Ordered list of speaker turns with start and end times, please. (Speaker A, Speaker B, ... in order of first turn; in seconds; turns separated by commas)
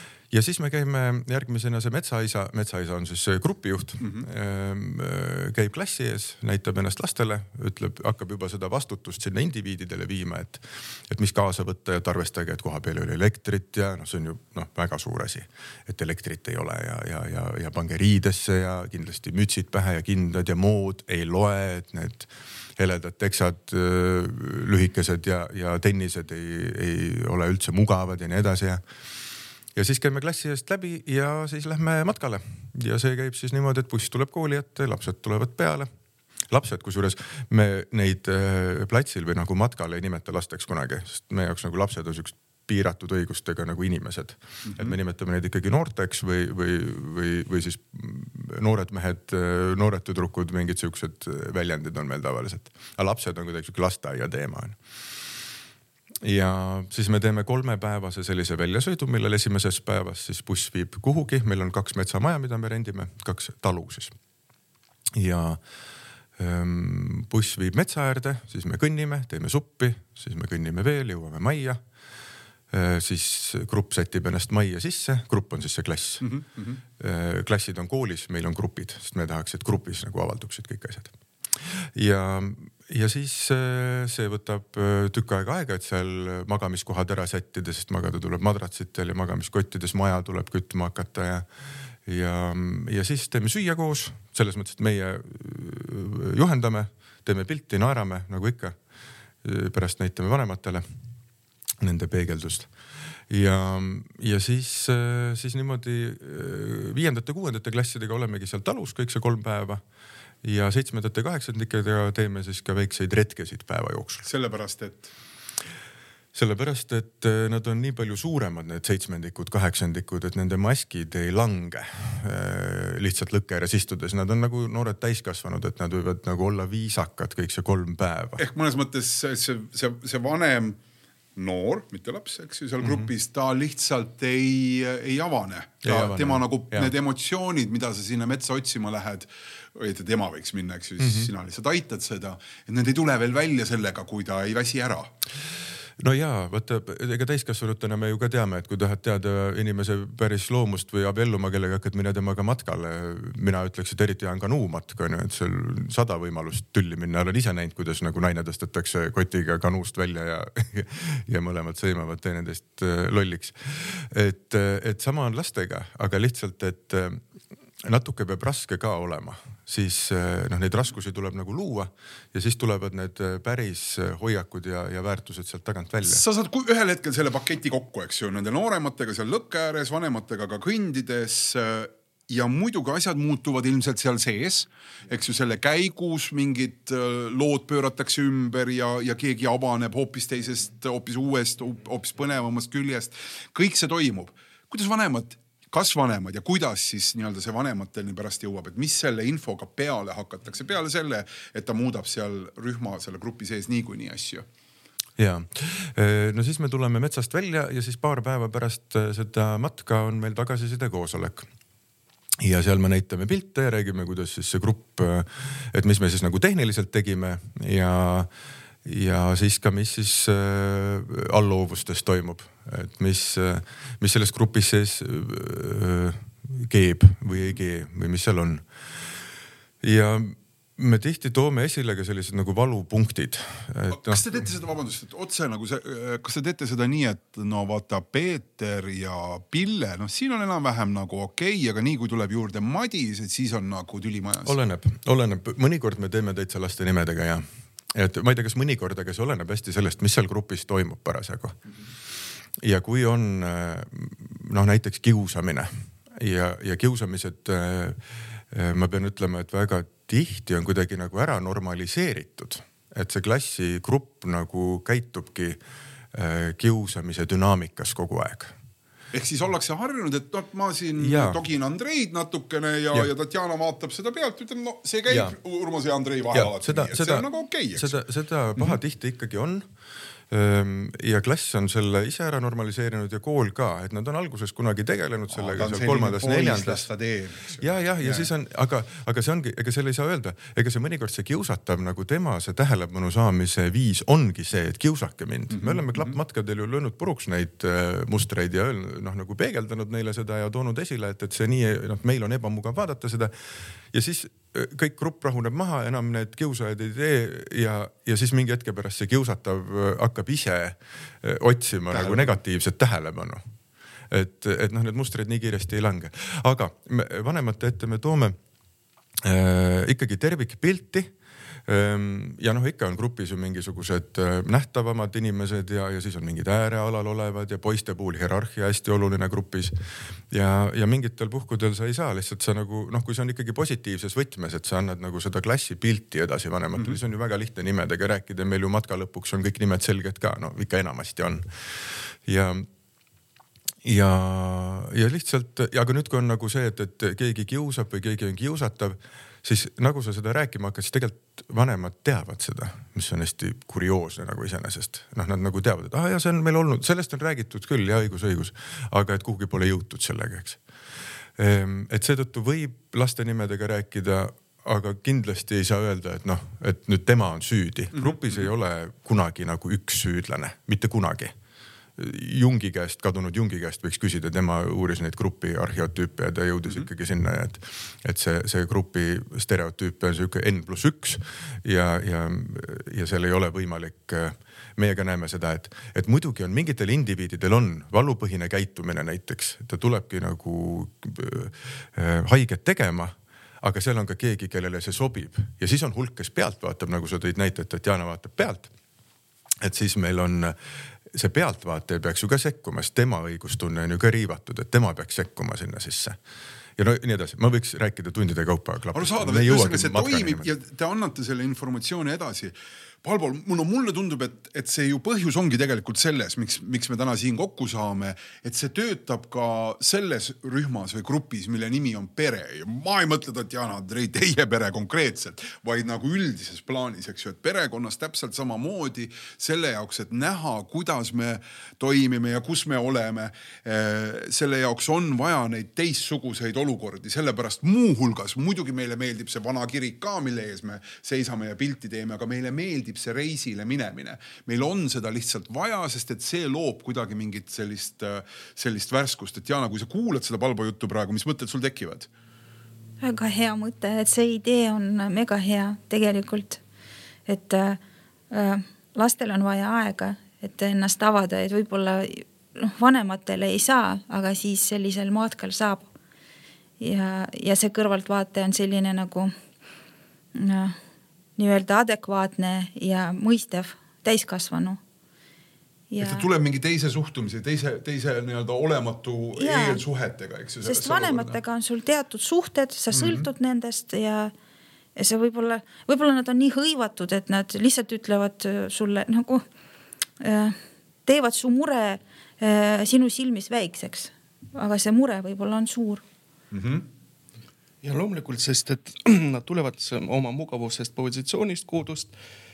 Speaker A: 0.3-28.8, Speaker B: 4.0-4.2, Speaker A: 29.7-35.9, Speaker A: 36.5-54.8, Speaker B: 44.6-45.0, Speaker A: 56.2-64.1, Speaker A: 65.1-65.6, Speaker A: 66.4-71.8, Speaker A: 72.7-76.2, Speaker B: 76.2-76.8, Speaker A: 77.0-81.1, Speaker A: 81.8-91.5, Speaker A: 92.0-98.8, Speaker A: 99.4-100.8, Speaker A: 101.8-102.7, Speaker A: 103.3-109.8, Speaker A: 110.4-114.2, Speaker B: 114.2-115.1, Speaker A: 116.3-128.4, Speaker B: 128.4-130.8, Speaker B: 131.4-145.1, Speaker A: 132.8-133.1, Speaker A: 135.8-136.9, Speaker A: 141.0-141.3, Speaker A: 146.0-167.2, Speaker A: 167.8-176.2, Speaker B: 176.0-204.4, Speaker A: 205.2-211.5, Speaker A: 212.4-218.3, Speaker A: 218.8-228.6, Speaker A: 229.8-234.3, Speaker B: 233.9-244.6, Speaker A: 244.4-251.6, Speaker A: 252.6-265.6, Speaker A: 266.1-268.5, Speaker B: 269.1-277.9, Speaker A: 271.0-271.4, Speaker A: 275.1-275.4, Speaker A: 276.3-279.6, Speaker A: 280.3-286.9, Speaker B: 285.3-288.3, Speaker A: 287.6-303.3, Speaker B: 295.5-296.1, Speaker A: 303.9-313.4, Speaker B: 311.9-312.4, Speaker A: 314.1-318.4, Speaker A: 319.2-321.1, Speaker A: 321.7-329.7, Speaker A: 330.3-342.6, Speaker A: 343.8-360.6, Speaker A: 361.4-371.3, Speaker B: 367.9-368.4, Speaker A: 372.0-398.7, Speaker A: 399.6-400.5, Speaker A: 401.1-406.2, Speaker A: 406.8-410.5, Speaker B: 408.9-452.1, Speaker C: 453.0-456.6, Speaker C: 457.3-457.8, Speaker C: 458.3-465.9, Speaker C: 466.8-469.3, Speaker C: 470.4-470.8, Speaker C: 471.4-474.8, Speaker C: 475.9-476.3, Speaker B: 476.0-481.4, Speaker C: 479.4-479.8, Speaker C: 480.6-484.3, Speaker B: 482.9-483.3, Speaker C: 484.9-489.4, Speaker C: 490.2-496.0, Speaker B: 496.5-496.9, Speaker D: 497.8-502.1